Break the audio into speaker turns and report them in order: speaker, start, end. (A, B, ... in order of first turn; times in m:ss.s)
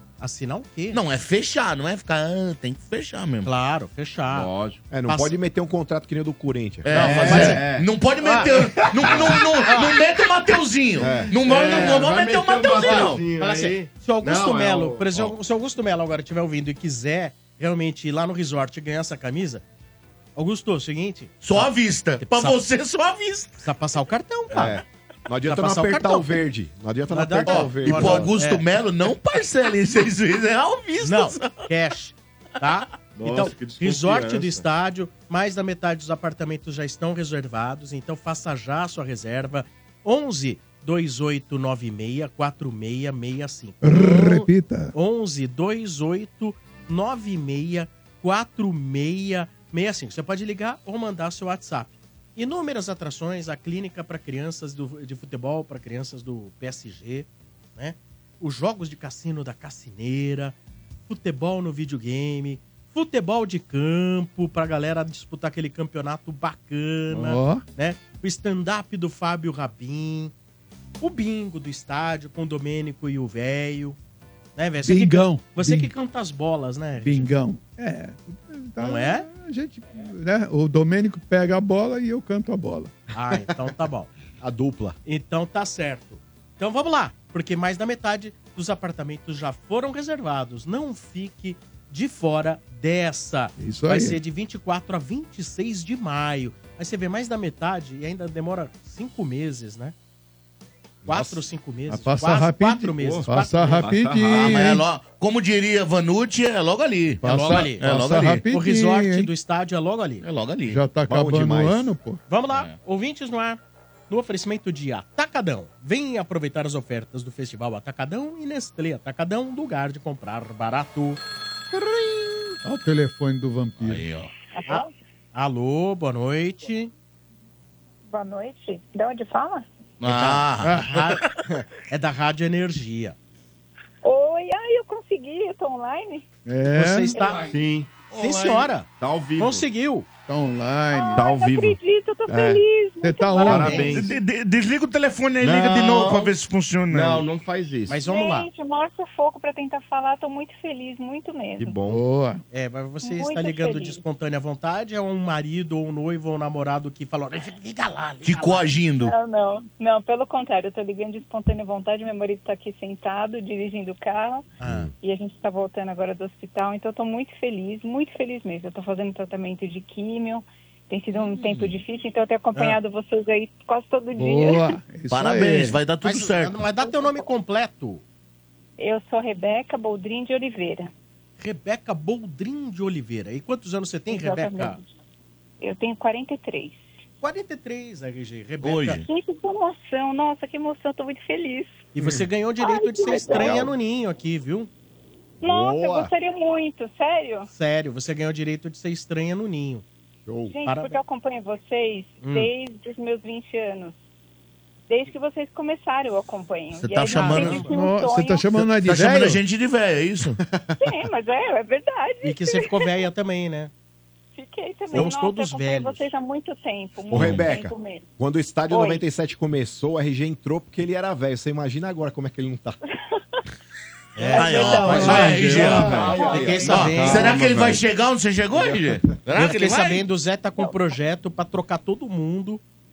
0:00.2-0:01.0 A
0:00.9-0:03.5 B
0:03.4-0:04.5 A
0:04.3-0:04.8 C
0:04.9-0:07.6 D
0:05.1-0:05.3 A
0:06.8-0:13.2 B
0:06.9-0:07.9 C
0:07.0-0:07.6 A
0:08.2-0:10.0 A
0:08.8-0:09.3 C
0:11.0-0:11.3 D
0:11.0-0:15.3 C
0:12.8-0:19.6 A
0:20.4-0:22.6 A
0:21.4-0:23.6 B
0:23.6-0:24.8 A
0:24.5-0:28.3 D
0:25.4-0:26.4 A
0:27.1-0:28.6 A
0:27.4-0:31.6 B
0:31.0-1:00.6 A
0:33.1-0:34.6 C
0:43.8-0:44.9 E
1:01.1-1:10.3 A
1:07.1-1:07.6 E
1:11.0-1:14.0 A
1:14.6-1:17.3 A
1:14.8-1:15.9 E
1:17.0-1:22.9 E
1:18.8-1:19.3 A
1:23.1-1:24.1 A
1:24.4-1:25.0 D
1:25.0-1:39.9 A
1:33.6-1:34.2 E
1:41.0-1:43.8 A
1:41.1-1:41.4 D
1:41.9-1:44.8 E
1:43.0-1:44.6 C
1:44.3-1:48.5 B
1:47.2-1:49.3 E
1:47.2-1:47.9 A
1:48.5-1:50.2 A
1:50.2-1:50.8 B
1:50.7-1:52.2 E
1:51.0-1:51.9 D
1:52.3-2:01.2 A
1:52.5-1:52.8 B
2:02.6-2:04.0 E
2:03.8-2:04.3 B
2:04.5-2:04.9 F
2:05.3-2:06.9 A
2:08.1-2:09.6 F
2:10.0-2:11.2 B
2:10.1-2:11.2 A
2:10.6-2:10.9 E
2:11.9-2:13.2 A
2:14.0-2:16.2 F
2:16.4-2:17.2 E
2:16.7-2:17.5 A
2:17.5-2:17.9 C
2:18.1-2:20.1 A
2:18.2-2:18.7 B
2:19.0-2:19.7 C
2:20.3-2:21.2 E
2:20.9-2:23.9 F
2:21.2-2:22.6 C
2:23.0-2:24.0 E
2:23.4-2:24.1 C
2:23.9-2:27.3 B
2:25.4-2:26.3 C
2:26.9-2:28.0 C
2:27.9-2:28.5 A
2:28.0-2:31.8 F
2:31.6-2:32.0 C
2:31.8-2:32.4 E
2:32.5-2:38.7 A
2:33.0-2:34.0 F
2:38.2-2:39.1 B
2:39.0-2:44.4 F
2:44.6-2:44.9 A
2:45.0-2:54.8 F
2:51.2-2:51.8 B
2:52.5-2:52.8 A
2:54.2-2:55.8 E
2:55.1-2:56.6 B
2:56.0-2:58.0 A
2:56.9-2:57.2 F
2:58.8-3:00.9 F
3:01.4-3:04.8 A
3:04.1-3:04.8 F
3:05.6-3:06.8 F
3:07.2-3:09.0 A
3:08.6-3:09.0 B
3:09.0-3:11.9 F
3:11.9-3:14.7 A
3:12.6-3:13.6 F
3:15.4-3:16.1 D
3:15.4-3:17.5 F
3:17.5-3:19.8 A
3:20.2-3:20.6 D
3:20.5-3:23.9 F
3:20.6-3:21.0 A
3:22.2-3:22.5 A
3:24.9-3:28.5 F
3:26.8-3:27.7 B
3:27.1-3:27.7 A
3:27.7-3:29.4 E
3:28.6-3:30.4 B
3:28.9-3:29.3 A
3:30.4-3:30.7 D
3:30.8-3:33.1 F
3:32.2-3:33.7 A
3:34.3-3:38.0 F
3:34.9-3:36.0 A
3:37.1-3:42.8 D
3:38.7-3:39.0 F
3:44.2-3:47.4 A
3:44.2-3:46.5 F
3:44.3-3:50.0 B
3:44.9-3:47.8 C
3:45.8-3:47.0 D
3:49.3-3:52.6 A
3:50.6-3:50.9 F